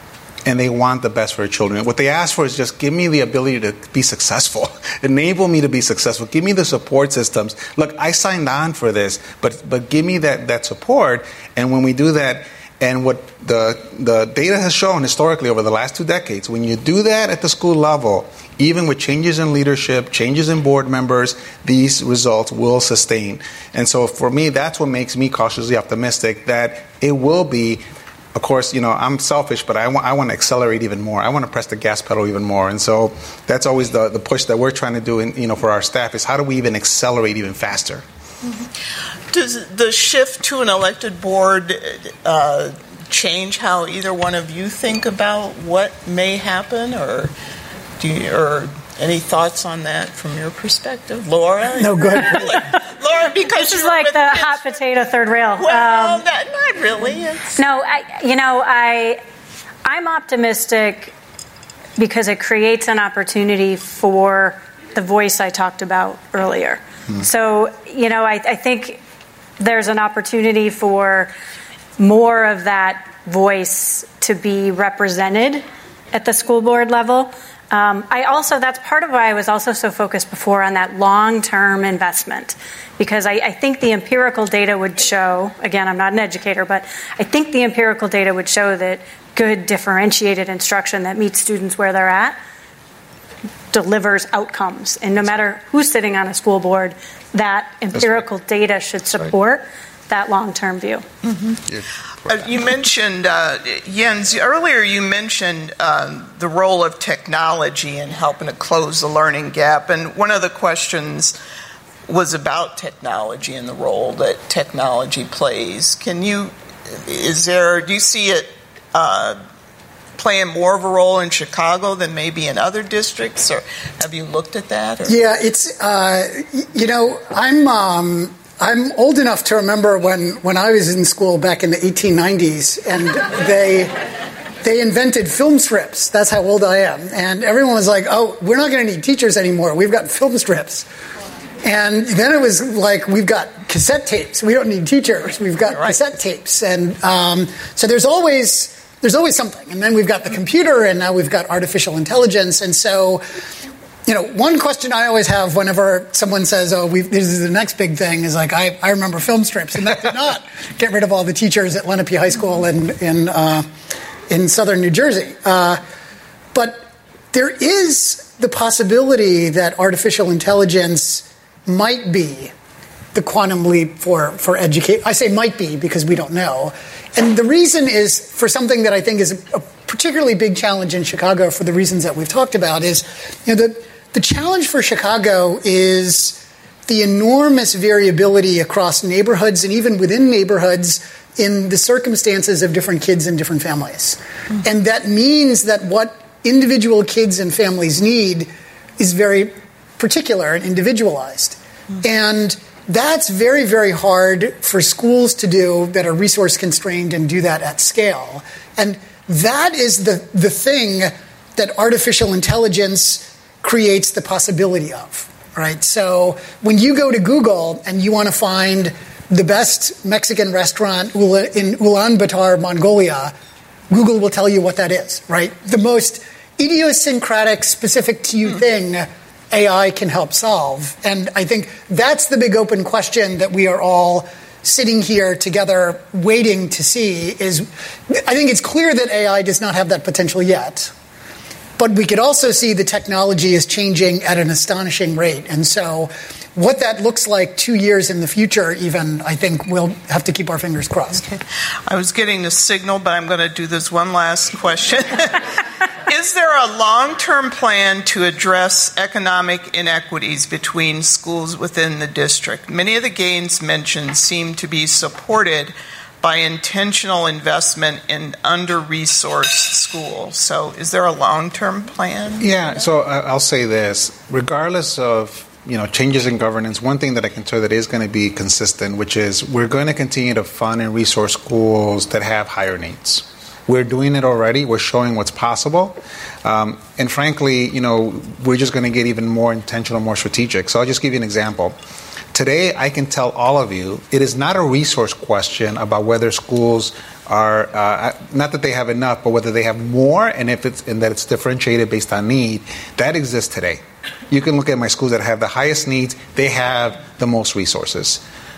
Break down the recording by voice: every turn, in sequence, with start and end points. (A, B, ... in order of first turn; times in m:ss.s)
0:00.4-0:27.8 A
0:28.3-0:38.0 A
0:39.3-0:47.3 B
0:48.0-0:54.7 B
0:51.8-0:52.6 C
0:53.6-0:56.2 D
0:55.6-0:57.6 B
0:57.6-0:59.2 D
0:59.8-1:01.1 D
1:02.0-1:09.0 D
1:09.6-1:11.3 D
1:12.0-1:32.4 D
1:33.7-1:41.0 D
1:41.3-1:41.6 B
1:41.7-1:42.4 A
1:42.3-1:51.4 B
1:52.1-1:59.4 B
2:00.2-2:05.1 B
2:05.0-2:13.9 C
2:14.6-2:20.8 C
2:21.6-2:33.2 C
2:34.0-2:43.7 C
2:44.3-2:45.8 C
2:46.5-2:52.5 C
2:53.1-3:43.3 C
3:43.9-4:00.9 C
4:01.8-4:11.3 C
4:11.8-4:15.5 B
4:16.0-4:32.5 B
4:32.4-4:51.8 A
4:52.3-5:08.2 A